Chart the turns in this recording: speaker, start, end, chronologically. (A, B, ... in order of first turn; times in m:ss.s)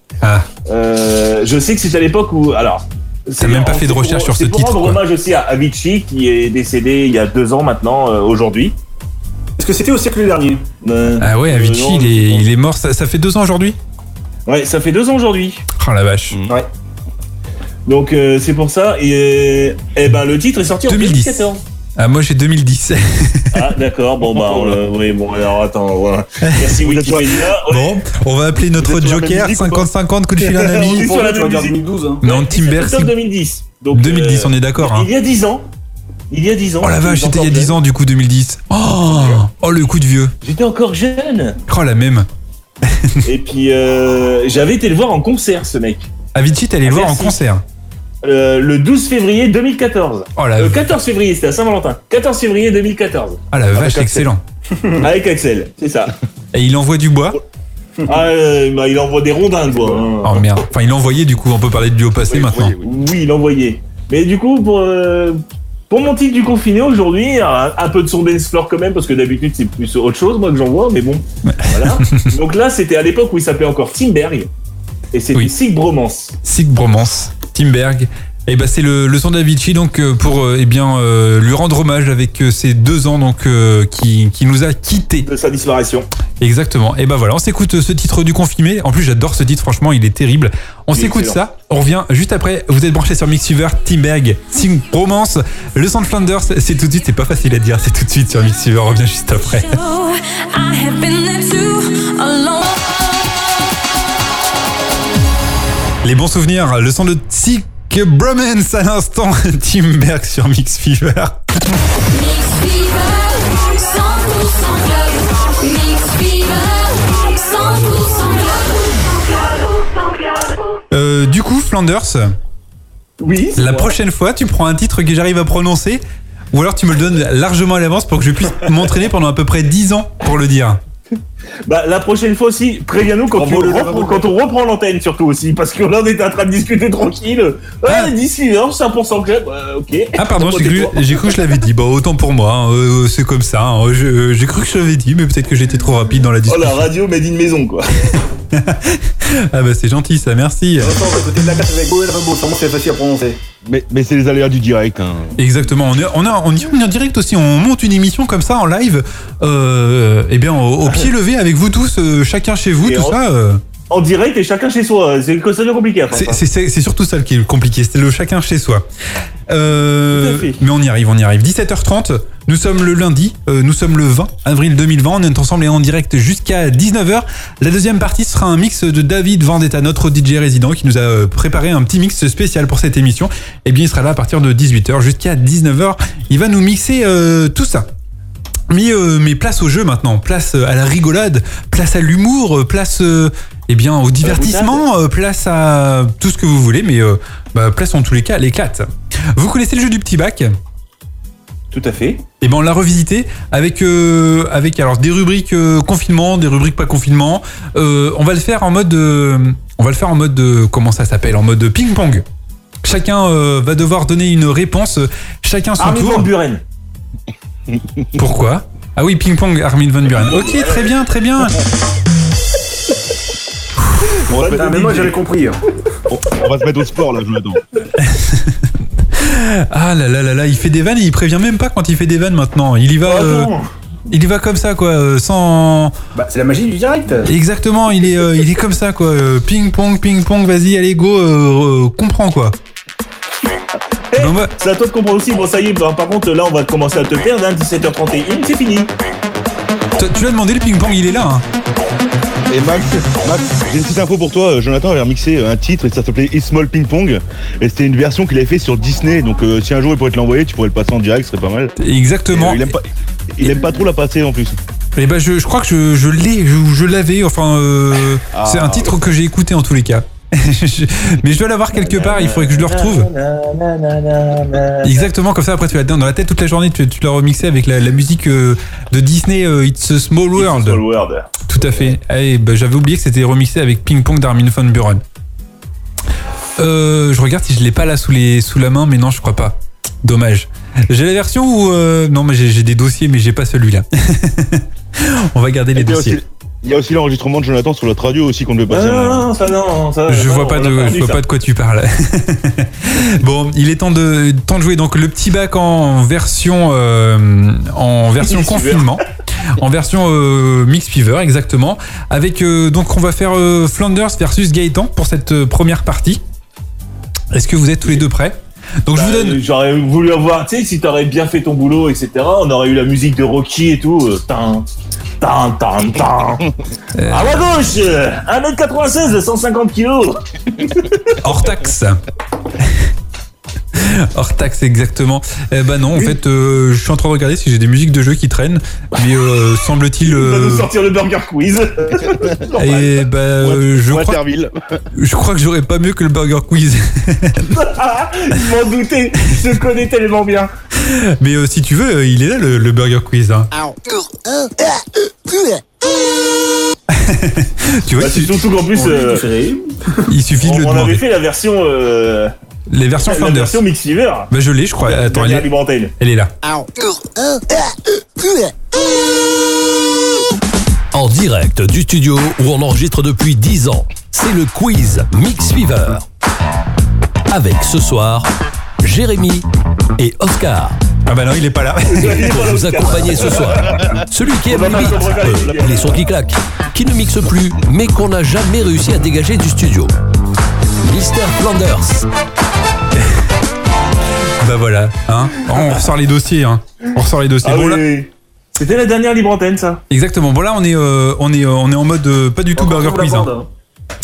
0:00.6-0:08.8 A
0:03.4-0:05.0 B
0:09.6-0:10.6 C
0:10.8-0:12.5 A
0:11.2-0:13.8 B
0:14.5-0:15.6 A
0:15.8-0:16.4 B
0:16.3-0:16.6 D
0:17.8-0:21.6 A
0:20.9-0:21.4 B
0:22.0-0:23.6 B
0:23.5-0:28.0 A
0:26.4-0:26.7 B
0:26.8-0:27.4 D
0:27.6-0:31.1 B
0:28.7-0:29.9 D
0:30.4-0:35.6 A
0:30.8-0:32.2 C
0:32.2-0:33.1 B
0:33.9-0:35.1 B
0:36.3-0:37.7 A
0:36.8-0:40.3 B
0:40.4-0:41.6 A
0:41.7-0:42.3 B
0:42.9-0:43.2 B
0:43.2-0:46.1 A
0:46.3-0:47.6 B
0:46.8-0:47.4 A
0:48.2-0:54.2 A
0:50.4-0:50.8 B
0:53.5-0:54.4 B
0:53.8-0:54.2 D
0:55.0-0:56.1 A
0:56.5-0:57.4 B
0:58.0-1:00.4 A
1:00.2-1:02.7 B
1:02.2-1:02.9 D
1:02.8-1:14.5 A
1:11.5-1:12.3 B
1:15.1-1:16.3 A
1:16.4-1:25.3 B
1:25.2-1:26.1 A
1:26.4-1:39.8 B
1:30.9-1:31.4 A
1:39.4-1:43.5 E
1:46.0-1:51.5 B
1:52.1-2:00.6 E
2:00.9-2:02.3 B
2:03.2-2:03.9 A
2:03.6-2:10.8 B
2:11.6-2:21.4 A
2:13.3-2:14.2 C
2:20.2-2:26.9 B
2:26.5-2:28.1 A
2:28.5-2:31.0 B
2:30.8-2:33.4 C
2:33.6-2:35.4 D
2:35.4-2:43.6 B
2:42.8-2:43.2 A
2:43.9-2:46.4 A
2:46.1-2:48.8 B
2:49.5-3:07.9 B
2:50.1-2:50.6 A
3:08.7-3:20.5 B
3:14.2-3:14.8 A
3:21.7-3:22.2 A
3:22.4-3:32.2 B
3:32.8-3:36.3 B
3:35.8-3:36.6 A
3:37.7-3:38.0 D
3:38.2-3:41.6 B
3:40.1-3:40.9 A
3:43.8-3:44.1 B
3:44.2-3:45.2 A
3:44.3-3:44.9 D
3:44.4-3:45.6 C
3:46.1-3:47.6 D
3:48.0-3:48.6 B
3:49.1-3:53.5 B
3:53.0-3:53.7 A
3:54.1-3:55.9 B
3:56.1-3:57.3 C
3:57.2-4:02.6 B
4:04.1-4:08.9 A
4:04.2-4:04.5 B
4:10.0-4:11.4 B
4:12.5-4:21.7 D
4:21.8-4:22.6 B
4:22.3-4:24.6 D
4:24.9-4:33.1 B
4:28.3-4:28.9 D
4:31.7-4:35.1 A
4:34.8-4:40.8 B
4:40.4-4:41.3 A
4:41.5-4:45.0 B
4:46.6-4:56.2 B
4:55.7-4:59.3 D
4:58.7-5:01.2 A
5:00.1-5:09.0 B
5:08.2-5:09.0 A
5:09.6-5:16.2 B
5:17.3-5:19.4 B
5:18.9-5:24.7 A
5:25.2-5:26.5 A
5:27.0-5:27.4 B
5:27.1-5:31.0 A
5:31.2-5:32.0 B
5:33.8-5:40.7 B
5:40.0-5:42.9 A
5:42.6-5:42.9 D
5:42.6-5:44.2 B
5:43.4-5:44.8 D
5:44.9-5:47.5 B
5:47.5-5:50.5 A
5:50.8-5:53.5 B
5:56.9-5:58.4 B
5:58.0-5:59.2 A
5:58.7-5:59.9 C
6:00.1-6:01.0 B
6:00.4-6:02.3 A
6:02.7-6:03.6 B
6:03.0-6:04.3 A
6:04.3-6:06.3 B
6:04.8-6:05.9 A
6:10.9-6:16.0 F
6:17.3-6:18.3 F
6:18.8-6:20.8 F
6:21.0-6:22.4 B
6:21.8-6:23.8 A
6:22.3-6:29.9 F
6:24.4-6:26.0 A
6:30.8-6:32.1 F
6:34.4-6:37.8 B
6:37.4-6:39.8 A
6:39.9-6:43.3 B
6:42.5-6:43.5 C